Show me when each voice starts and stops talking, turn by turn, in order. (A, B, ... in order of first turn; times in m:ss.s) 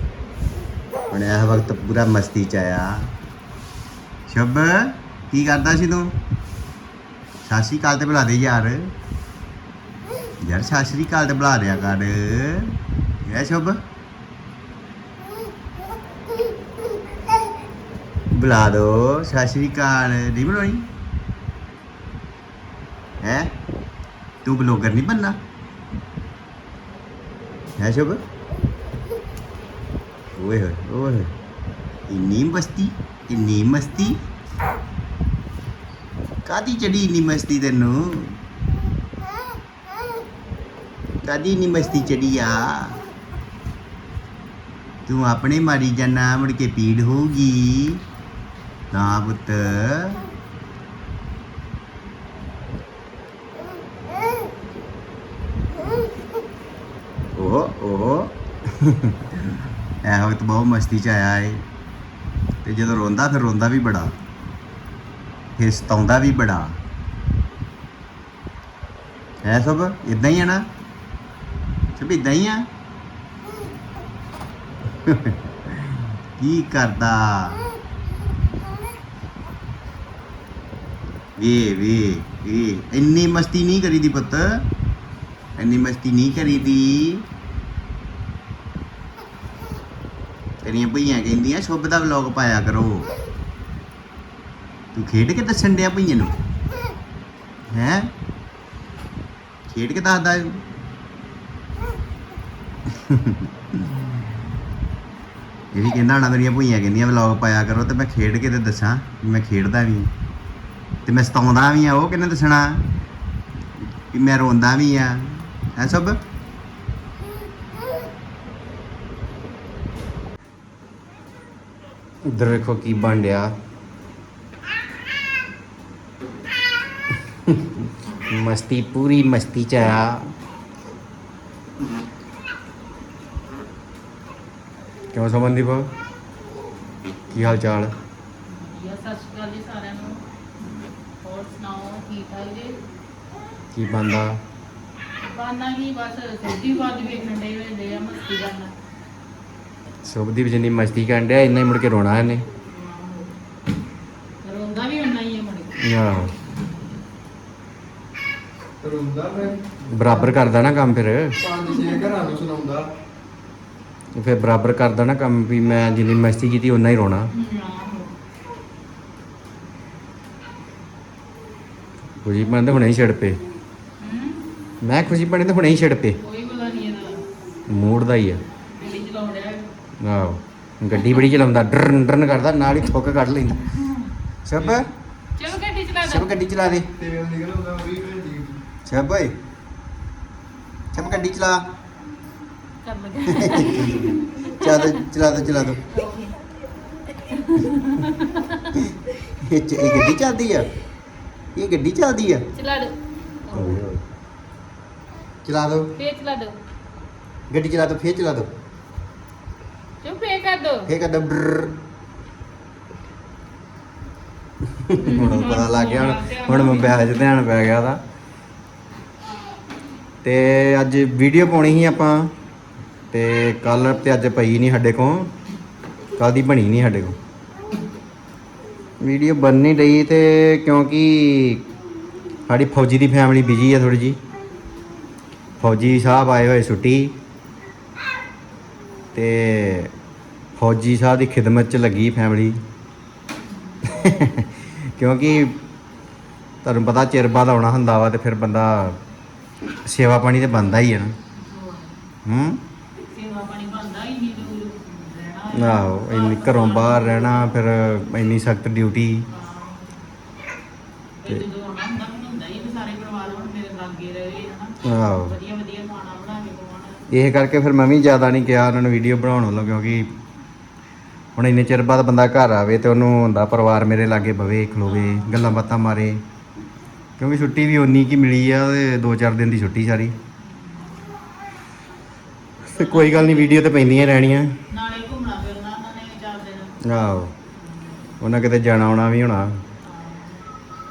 0:01.1-0:03.1 A
0:04.3-0:06.2 A
0:07.4-0:08.9 A
0:10.4-0:13.8 A
0:18.3-0:20.9 A
0:23.2-0:23.5 A
0:24.4-0:25.4 A
0:27.8-0:28.2 A
0:30.4-0:31.3 A
0:32.1-0:34.2 A
0:36.4-0:38.4 A
0:41.2-0:43.0 A
0:45.1-0:48.0 A
0:48.9-0:50.2 A
0:57.4-0:59.4 A
1:00.0-1:01.6 A
1:02.6-1:04.1 A
1:05.6-1:06.8 A
1:09.4-1:10.7 A
1:12.0-1:12.7 A
1:15.0-1:17.7 A
1:21.4-1:24.7 A
1:25.6-1:27.3 A
1:30.6-1:33.1 A
1:34.9-1:36.4 A
1:37.7-1:38.1 A
1:39.7-1:40.6 A
1:42.9-1:44.1 A
1:45.7-1:50.1 A
1:51.1-1:52.8 A
1:54.1-1:56.2 A
2:02.3-2:03.5 A
2:07.5-2:10.3 A
2:15.1-2:15.9 A
2:17.3-2:17.9 A
2:17.3-2:17.6 B
2:18.5-2:20.2 B
2:21.2-2:22.8 B
2:23.7-2:24.4 A
2:25.2-2:28.7 B
2:30.0-2:32.4 A
2:32.6-2:33.4 B
2:34.4-2:36.0 B
2:35.8-2:36.3 A
2:38.8-2:39.6 C
2:39.9-2:41.4 A
2:41.6-2:42.8 C
2:41.8-2:42.1 B
2:44.2-2:47.3 A
2:47.3-2:48.2 B
2:52.2-2:53.4 A
2:54.0-2:54.5 B
2:54.8-2:56.2 A
2:56.2-2:57.2 B
2:57.7-2:58.4 A
2:58.7-2:59.7 B
3:00.0-3:03.7 A
3:04.5-3:04.9 A
3:05.4-3:06.3 B
3:06.0-3:06.9 A
3:07.0-3:08.6 C
3:08.9-3:09.3 A
3:10.9-3:11.7 A
3:12.8-3:15.0 B
3:13.3-3:15.8 A
3:15.9-3:16.4 B
3:17.2-3:18.8 B
3:19.4-3:20.7 A
3:21.5-3:22.5 A
3:22.5-3:23.8 B
3:23.5-3:24.0 A
3:25.4-3:25.9 A
3:26.0-3:26.6 B
3:27.5-3:28.5 A
3:30.0-3:30.9 B
3:30.9-3:31.8 A
3:34.8-3:38.0 A
3:35.0-3:37.3 B
3:40.2-3:42.3 A
3:43.1-3:45.3 A
3:46.2-3:47.2 A
3:49.0-3:51.7 A
3:52.5-3:54.2 A
3:55.6-3:57.2 A
3:59.1-3:59.9 A
4:00.6-4:02.6 A
4:03.5-4:03.9 B
4:03.9-4:05.6 A
4:06.6-4:09.0 A
4:09.8-4:11.2 A
4:11.4-4:12.1 B
4:12.2-4:12.6 A
4:13.0-4:17.6 B
4:15.5-4:19.2 A
4:19.3-4:20.0 B
4:21.2-4:27.0 B
4:24.8-4:25.4 A
4:27.1-4:30.1 A
4:31.4-4:36.2 A
4:34.8-4:35.5 B
4:37.2-4:40.1 A
4:40.4-4:41.2 B
4:42.7-4:44.6 A
4:42.7-4:43.6 B
4:44.7-4:46.8 B
4:46.8-4:47.3 A
4:47.6-4:48.1 B
4:48.2-4:49.6 A
4:49.8-4:50.4 B